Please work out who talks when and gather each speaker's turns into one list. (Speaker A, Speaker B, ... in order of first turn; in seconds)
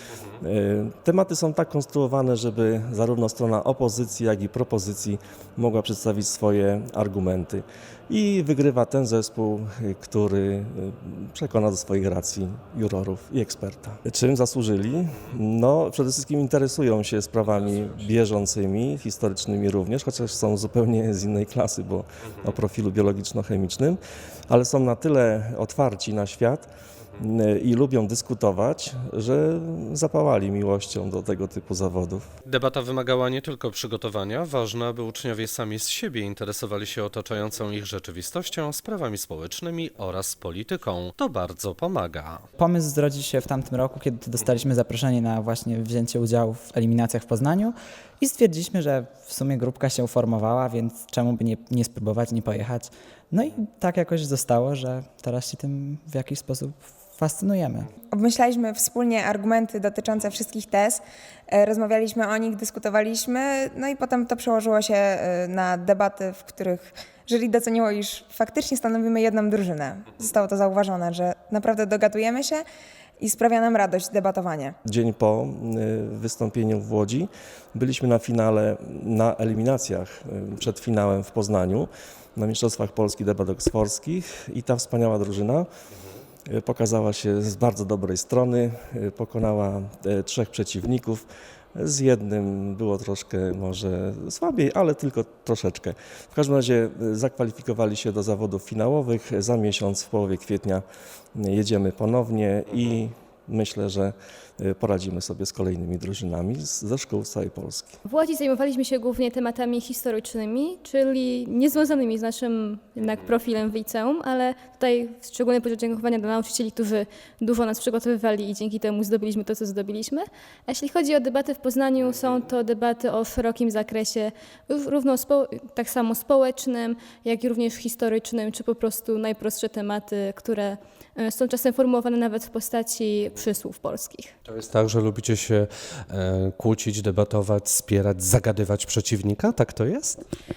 Speaker A: 0.4-32.3, 74.8-85.7, 86.5-108.0
Speaker B: 32.4-42.4, 134.4-140.2
Speaker C: 42.6-57.9
Speaker D: 58.1-72.6, 73.2-74.7
Speaker E: 108.0-134.3